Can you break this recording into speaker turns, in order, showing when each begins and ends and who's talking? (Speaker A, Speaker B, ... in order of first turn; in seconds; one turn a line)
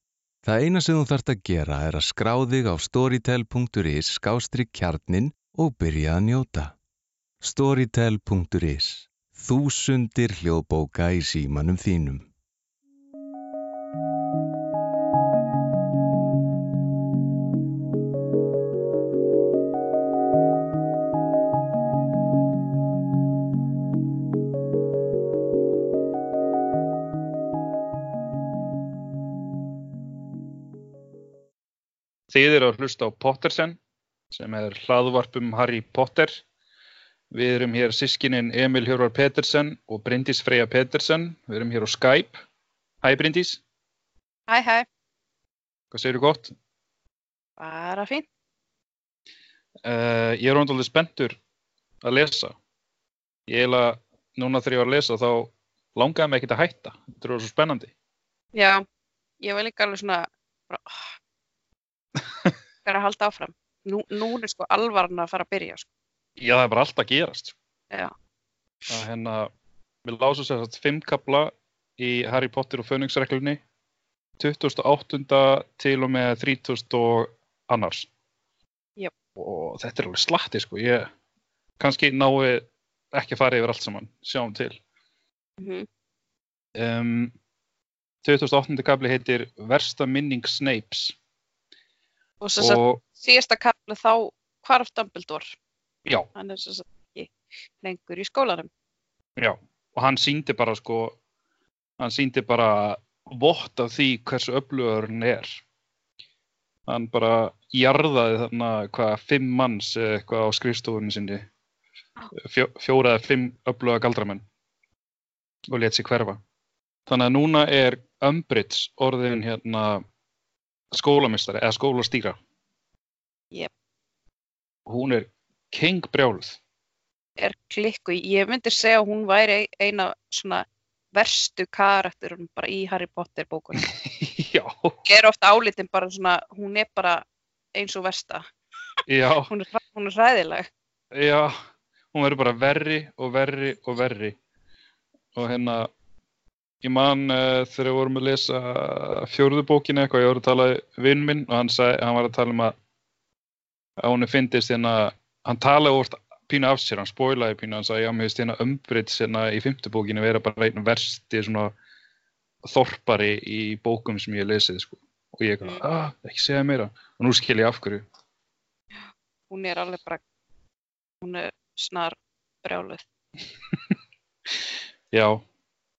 Speaker A: 0.4-6.8
Speaker A: 7.4-12.3
Speaker B: 32.3-33.8
Speaker B: 34.3-36.4
Speaker B: 37.3-42.4
Speaker B: 43.0-43.6
Speaker C: 44.5-44.9
Speaker B: 45.9-46.5
Speaker C: 47.6-48.3
Speaker B: 49.8-51.4
Speaker B: 52.0-52.5
Speaker B: 53.5-57.9
Speaker C: 58.5-58.8
Speaker C: 59.4-61.1
Speaker C: 62.9-65.9
Speaker B: 66.4-67.5
Speaker B: 68.9-69.5
Speaker B: 70.0-73.6
Speaker B: 74.4-78.1
Speaker B: 79.4-81.1
Speaker B: 81.8-84.8
Speaker C: 85.6-85.9
Speaker B: 86.8-87.3
Speaker B: 88.2-91.2
Speaker C: 92.4-95.5
Speaker B: 92.6-93.0
Speaker C: 96.3-98.7
Speaker B: 99.4-101.2
Speaker B: 102.0-105.6
Speaker B: 106.9-111.5
Speaker B: 112.3-114.5
Speaker B: 115.7-116.4
Speaker B: 117.1-120.0
Speaker B: 120.9-122.4
Speaker B: 124.9-126.6
Speaker C: 127.4-133.9
Speaker B: 133.8-135.0
Speaker C: 135.1-138.4
Speaker B: 139.1-139.5
Speaker C: 139.5-140.7
Speaker B: 141.1-141.6
Speaker B: 142.1-144.4
Speaker B: 145.3-145.9
Speaker B: 146.8-152.8
Speaker B: 154.0-161.7
Speaker B: 162.6-168.1
Speaker C: 169.5-170.2
Speaker C: 171.2-173.1
Speaker B: 175.1-175.4